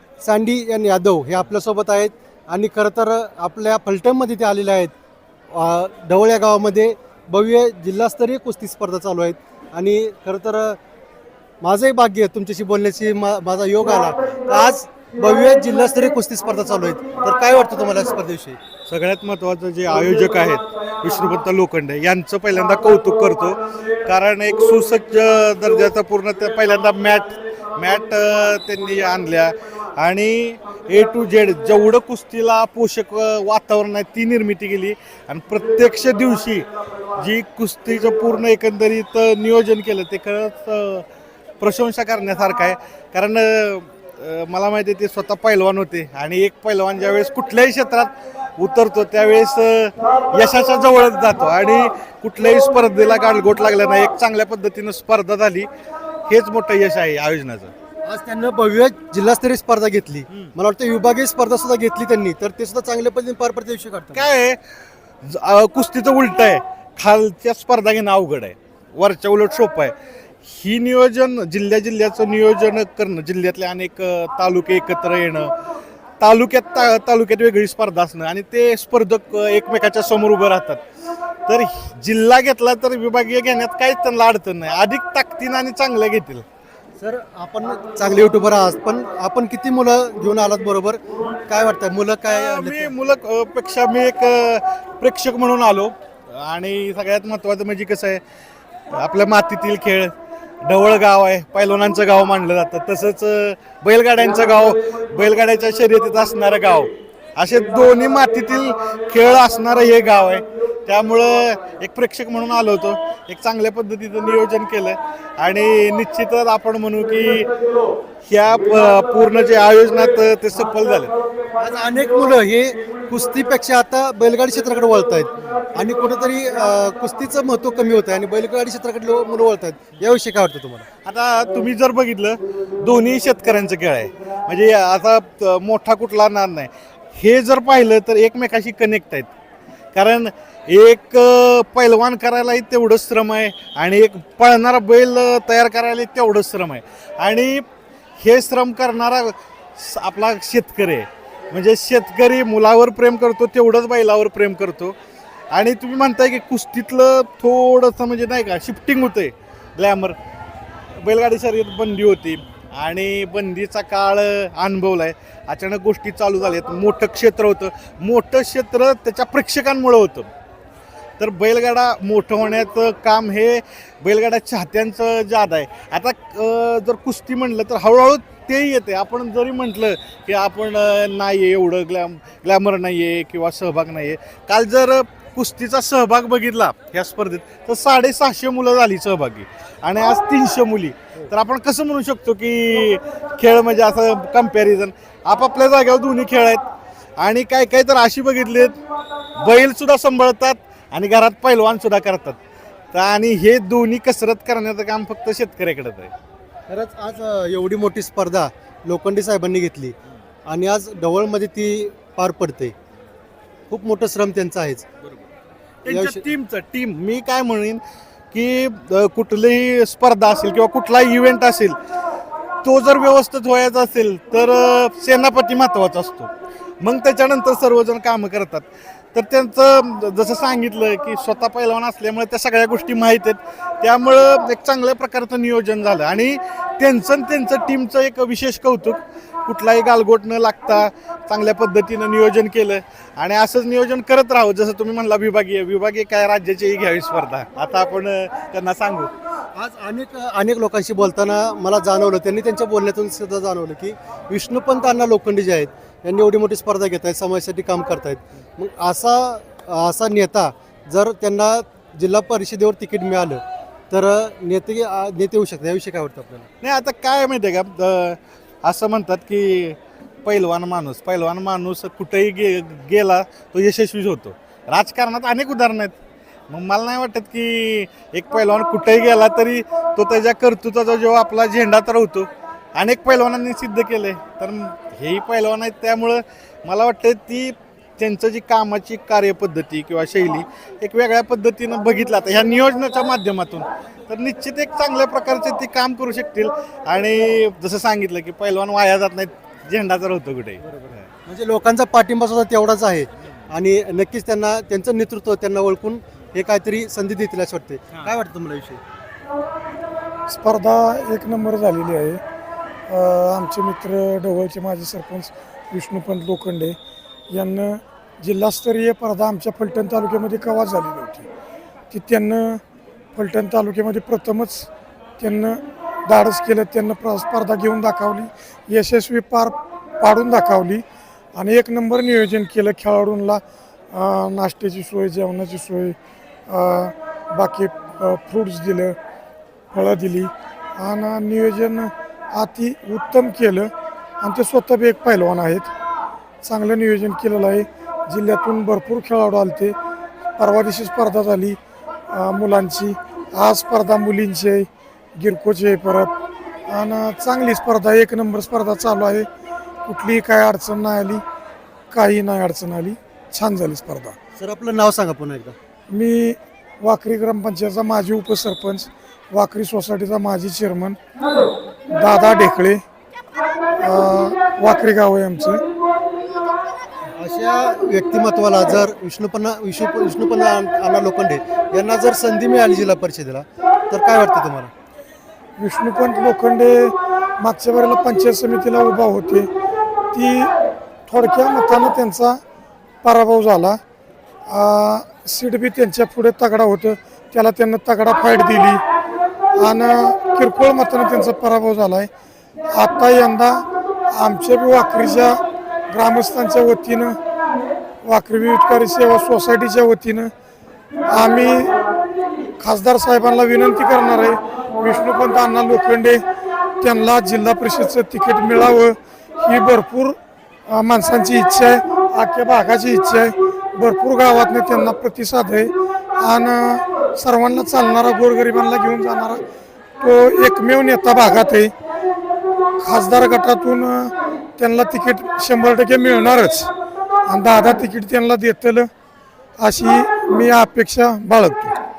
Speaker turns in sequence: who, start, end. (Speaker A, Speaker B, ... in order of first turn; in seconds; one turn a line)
Speaker A: 0.2-4.9
Speaker A: 5.5-10.8
Speaker A: 11.6-18.6
Speaker B: 18.9-41.1
Speaker B: 41.6-55.7
Speaker B: 56.3-57.7
Speaker A: 58.1-64.3
Speaker B: 64.1-64.6
Speaker B: 65.2-75.5
Speaker B: 76.2-80.8
Speaker B: 81.5-86.5
Speaker A: 87.0-92.9
Speaker B: 92.3-98.2
Speaker B: 98.9-100.1
Speaker B: 100.6-117.5
Speaker B: 118.3-121.1
Speaker A: 121.6-130.9
Speaker B: 131.1-139.3
Speaker B: 139.9-147.7
Speaker B: 148.2-154.9
Speaker B: 155.5-160.2
Speaker B: 161.0-170.3
Speaker B: 171.2-196.6
Speaker B: 197.2-198.8
Speaker B: 199.4-202.4
Speaker B: 202.9-206.1
Speaker A: 206.7-210.0
Speaker A: 210.5-212.8
Speaker A: 213.7-214.9
Speaker B: 215.8-221.8
Speaker A: 215.9-216.3
Speaker B: 222.6-226.3
Speaker B: 226.8-249.1
Speaker A: 249.6-266.5
Speaker B: 266.6-275.9
Speaker B: 276.5-301.1
Speaker A: 300.7-308.8
Speaker C: 310.3-312.2
Speaker C: 312.9-316.8
Speaker C: 317.3-321.3
Speaker C: 321.9-322.6
Speaker C: 323.1-324.7
Speaker C: 325.2-330.8
Speaker C: 331.4-333.4
Speaker C: 333.9-336.0
Speaker C: 336.5-339.0
Speaker C: 339.7-345.7
Speaker C: 346.4-349.8
Speaker C: 350.4-351.6
Speaker C: 352.1-356.1
Speaker C: 356.7-359.3
Speaker C: 359.9-361.2
Speaker C: 361.9-364.2
Speaker A: 364.4-365.6
Speaker C: 365.9-371.0
Speaker C: 371.9-372.8
Speaker C: 373.8-375.6
Speaker A: 377.2-384.7
Speaker C: 385.6-389.5
Speaker C: 390.1-390.5
Speaker C: 391.1-392.4
Speaker C: 393.0-393.8
Speaker C: 394.5-398.8
Speaker C: 399.6-402.1
Speaker C: 402.7-405.4
Speaker C: 405.9-407.2
Speaker C: 408.1-410.3
Speaker C: 411.1-411.8
Speaker C: 412.6-416.2
Speaker C: 416.8-420.2
Speaker C: 420.7-429.4
Speaker C: 430.0-431.7
Speaker C: 432.8-436.7
Speaker C: 437.3-438.9
Speaker C: 439.6-441.8